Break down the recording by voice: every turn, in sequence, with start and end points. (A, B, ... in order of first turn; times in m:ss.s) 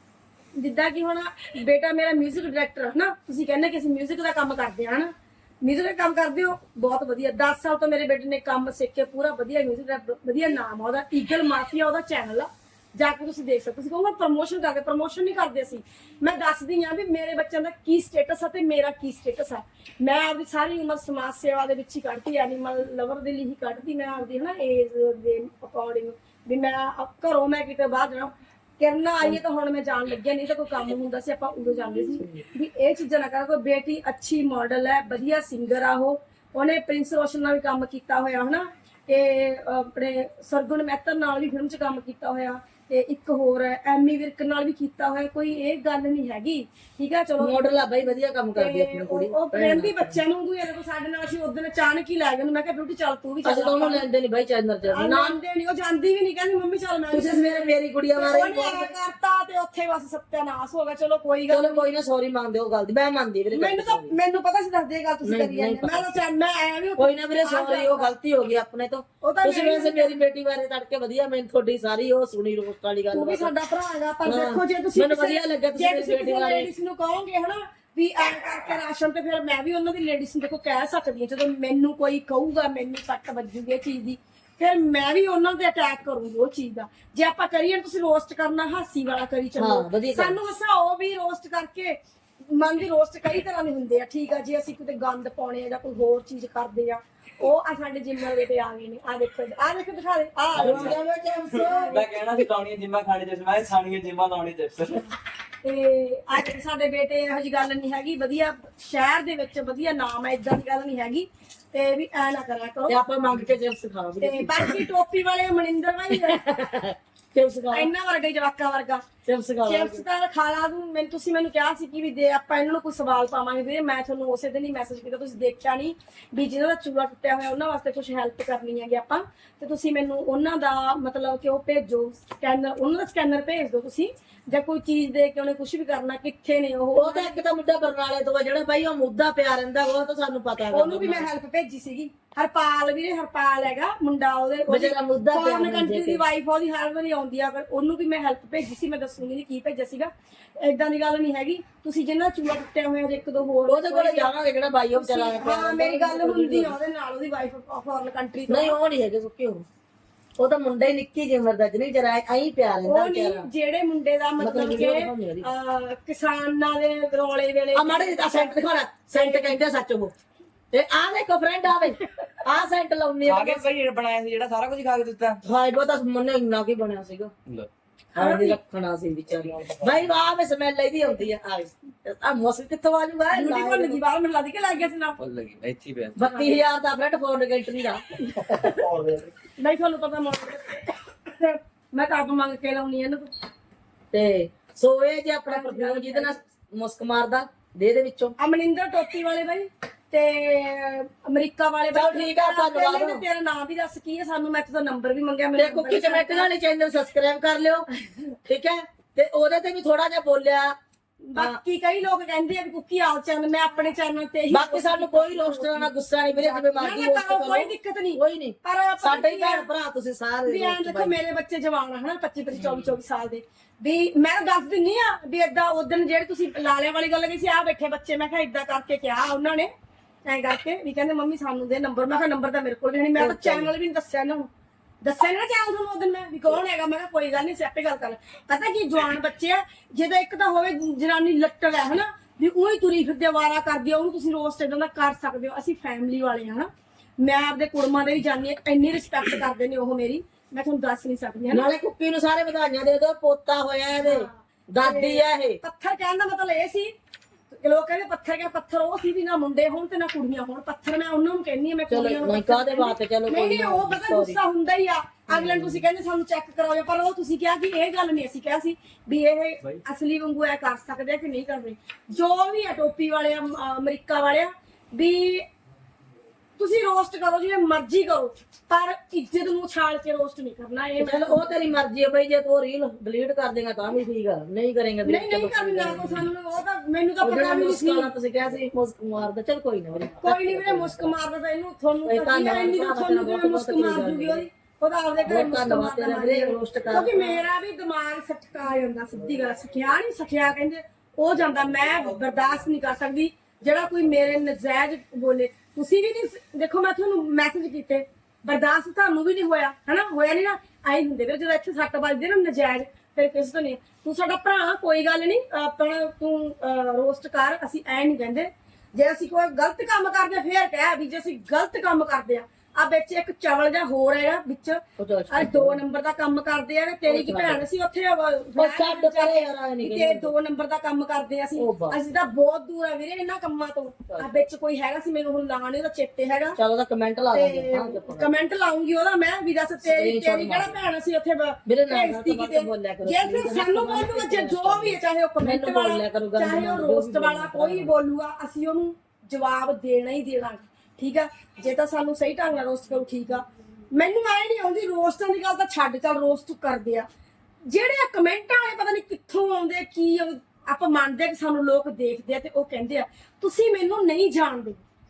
0:00.6-0:47.7 A
0:32.2-0:32.5 B
0:47.4-0:50.2 B
0:48.6-0:54.0 A
0:53.4-0:55.4 B
0:54.9-1:01.9 A
0:57.1-0:58.9 B
1:01.5-1:04.2 B
1:03.5-1:08.1 A
1:05.2-1:06.1 B
1:07.0-1:13.5 B
1:09.2-1:10.2 A
1:13.1-1:41.0 A
1:14.2-1:16.7 B
1:29.6-1:30.4 B
1:40.5-1:41.0 C
1:40.6-1:42.1 B
1:41.5-1:42.0 A
1:41.6-1:45.1 C
1:45.6-1:53.0 A
1:52.9-1:54.9 B
1:54.2-1:56.4 A
1:56.1-1:57.9 B
1:57.7-1:59.1 A
1:59.2-2:00.0 B
1:59.6-2:17.4 A
2:17.0-2:21.3 B
2:20.7-2:34.3 A
2:24.7-2:26.2 B
2:33.7-2:36.8 B
2:34.9-2:38.8 A
2:38.5-2:39.6 B
2:40.4-2:43.5 B
2:42.8-2:48.6 A
2:44.4-2:45.5 B
2:47.7-2:50.1 B
2:49.1-2:49.6 A
2:50.7-2:53.7 B
2:53.2-2:55.4 C
2:55.4-2:57.3 B
2:58.2-2:58.6 A
2:58.2-3:04.0 B
3:03.3-3:05.2 A
3:05.2-3:06.3 C
3:06.2-3:08.1 B
3:06.2-3:06.6 A
3:08.4-3:08.7 A
3:08.4-3:09.3 C
3:09.6-3:13.3 A
3:14.1-3:18.4 B
3:15.5-3:16.4 A
3:18.4-3:26.5 A
3:21.9-3:23.2 B
3:25.6-3:27.9 B
3:28.4-3:30.8 B
3:31.3-3:39.7 A
3:34.5-3:41.2 B
3:40.5-3:49.7 A
3:42.6-3:43.0 B
3:50.2-3:54.5 A
3:53.2-3:53.7 B
3:55.0-4:06.7 A
4:07.2-4:11.7 A
4:11.5-4:15.6 B
4:14.0-4:16.9 A
4:17.5-4:35.4 A
4:21.9-4:24.4 B
4:25.3-4:25.9 B
4:36.6-4:41.6 A
4:41.0-4:46.3 B
4:45.0-4:48.1 A
4:47.2-4:51.1 B
4:50.2-5:36.6 A
4:52.0-4:54.4 B
4:55.2-4:57.5 B
5:25.0-5:25.8 B
5:27.1-5:27.6 B
5:28.6-5:30.3 B
5:31.6-5:32.0 B
5:34.1-5:34.5 B
5:36.6-5:38.3 B
5:37.3-5:57.1 A
5:39.8-5:40.8 B
5:41.7-5:47.9 B
5:57.7-6:04.8 A